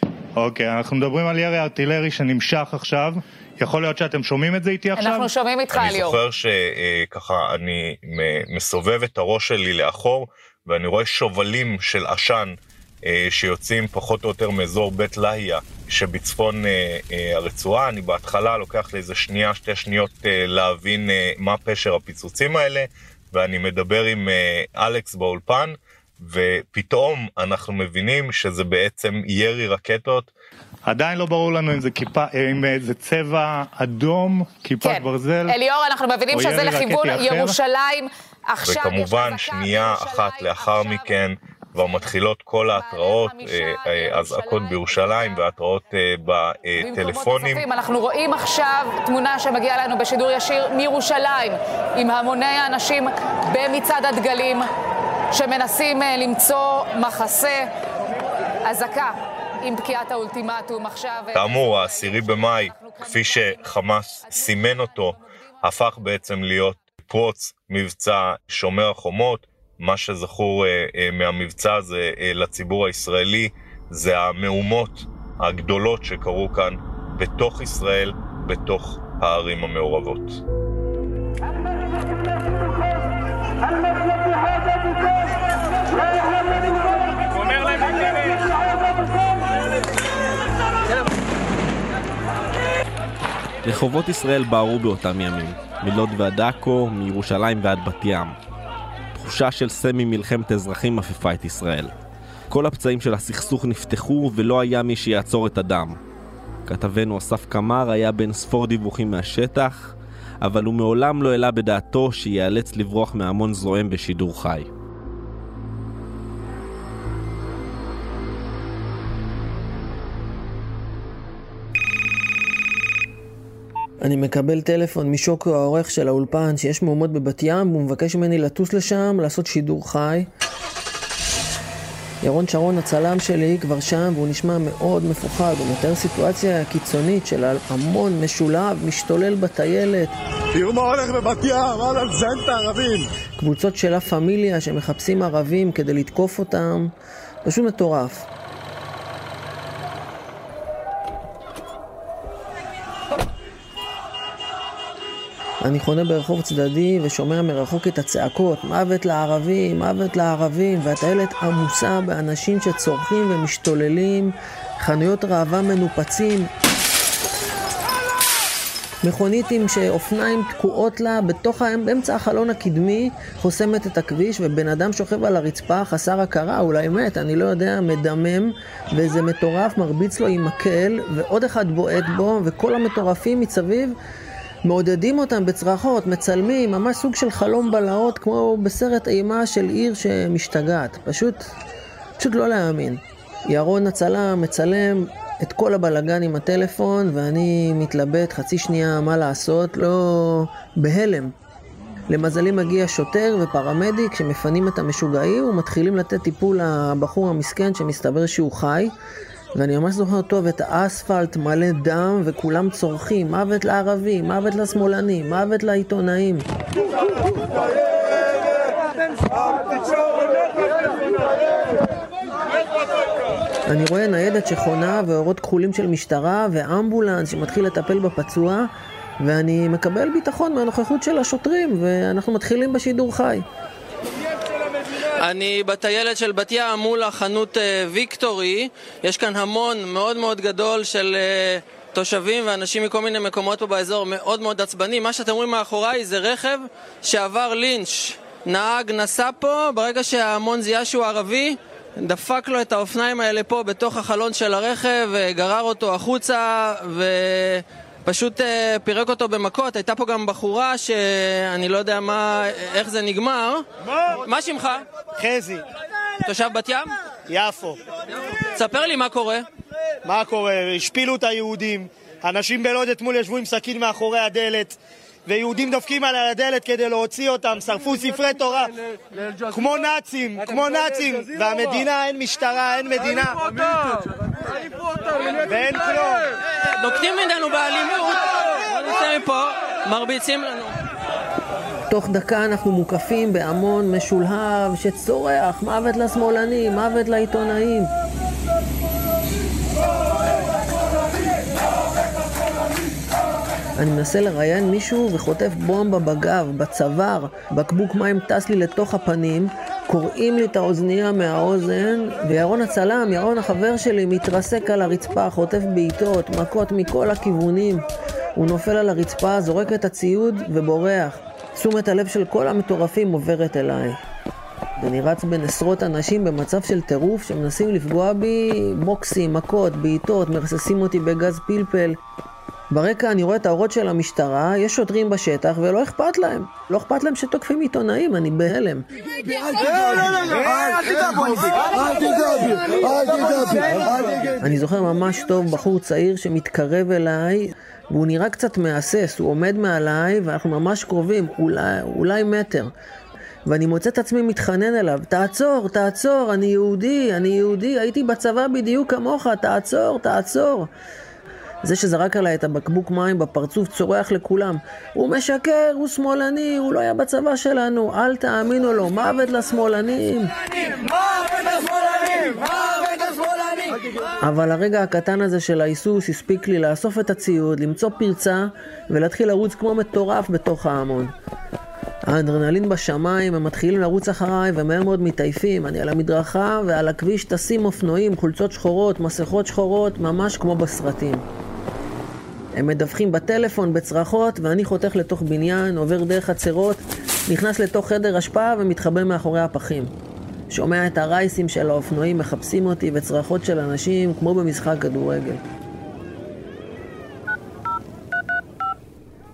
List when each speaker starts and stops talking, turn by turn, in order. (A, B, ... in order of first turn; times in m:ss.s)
0:00.4-0:05.3 A
0:05.0-0:06.2 B
0:05.7-0:30.3 C
0:30.9-0:35.6 A
0:34.8-0:41.2 B
0:36.3-0:37.6 A
0:38.6-0:47.6 C
0:42.7-0:45.4 B
0:46.8-0:54.7 B
0:55.3-0:57.7 B
0:58.7-1:06.0 B
1:01.3-1:20.4 C
1:33.6-1:38.4 D
1:39.2-1:41.9 D
1:42.5-1:46.0 D
1:46.7-1:54.7 D
2:04.0-2:10.3 E
2:12.2-2:20.1 E
2:20.6-2:23.0 F
2:23.4-2:26.9 E
2:27.4-2:28.3 E
2:35.6-2:46.5 E
2:49.0-3:03.9 E
3:04.7-3:11.4 E
3:12.2-3:21.3 E
3:22.1-3:28.9 E
3:29.6-3:36.4 E
3:43.7-3:48.7 E
3:49.2-3:53.4 E
3:55.2-4:23.6 G
4:24.2-4:24.8 G
4:25.2-4:25.6 H
4:26.3-4:26.9 G
4:27.3-4:27.8 H
4:28.5-4:29.4 G
4:30.0-4:38.7 H
4:39.5-4:43.4 H
4:45.4-4:46.3 H
4:46.8-4:50.7 G
4:51.9-4:57.9 E
5:03.8-5:17.8 E
5:18.4-5:24.0 E
5:24.8-5:32.0 E
5:32.7-5:38.8 E
5:44.4-5:52.7 E
5:53.5-6:00.7 E
6:01.6-6:10.3 E
6:14.2-6:21.1 E
6:22.1-6:31.2 E
6:32.6-6:39.9 E
6:40.5-6:45.4 E